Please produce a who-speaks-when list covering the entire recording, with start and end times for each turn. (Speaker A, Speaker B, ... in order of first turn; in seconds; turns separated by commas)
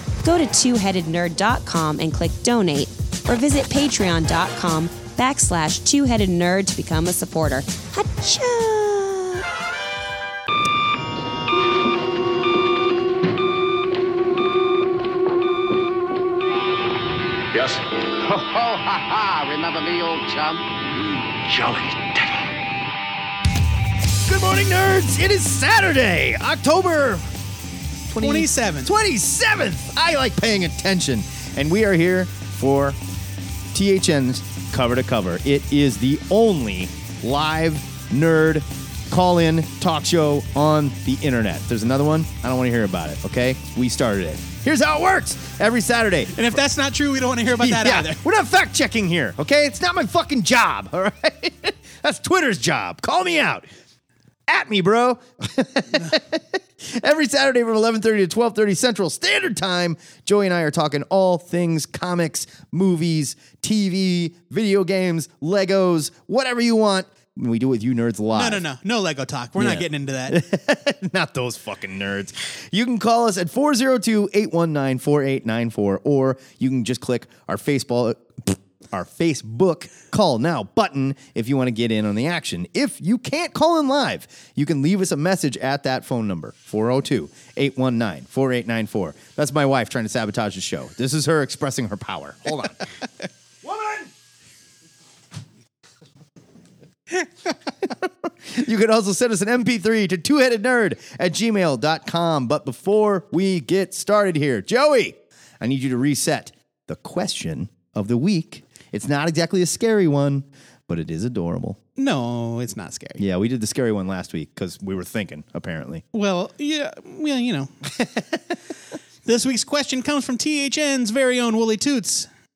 Speaker A: 0.2-9.4, Speaker B: 17.5-20.8, Speaker C: 21.4-22.2, Speaker C: 24.2-27.3, Speaker C: 28.1-33.0, Speaker D: 28.2-28.9, Speaker C: 33.7-46.5, Speaker D: 46.3-48.2, Speaker C: 47.6-53.7, Speaker C: 54.5-68.6, Speaker D: 68.3-70.4, Speaker C: 69.5-92.8, Speaker C: 93.6-94.1, Speaker C: 97.8-111.8, Speaker D: 112.0-113.2, Speaker C: 113.2-116.0, Speaker D: 116.1-117.7, Speaker D: 119.2-122.3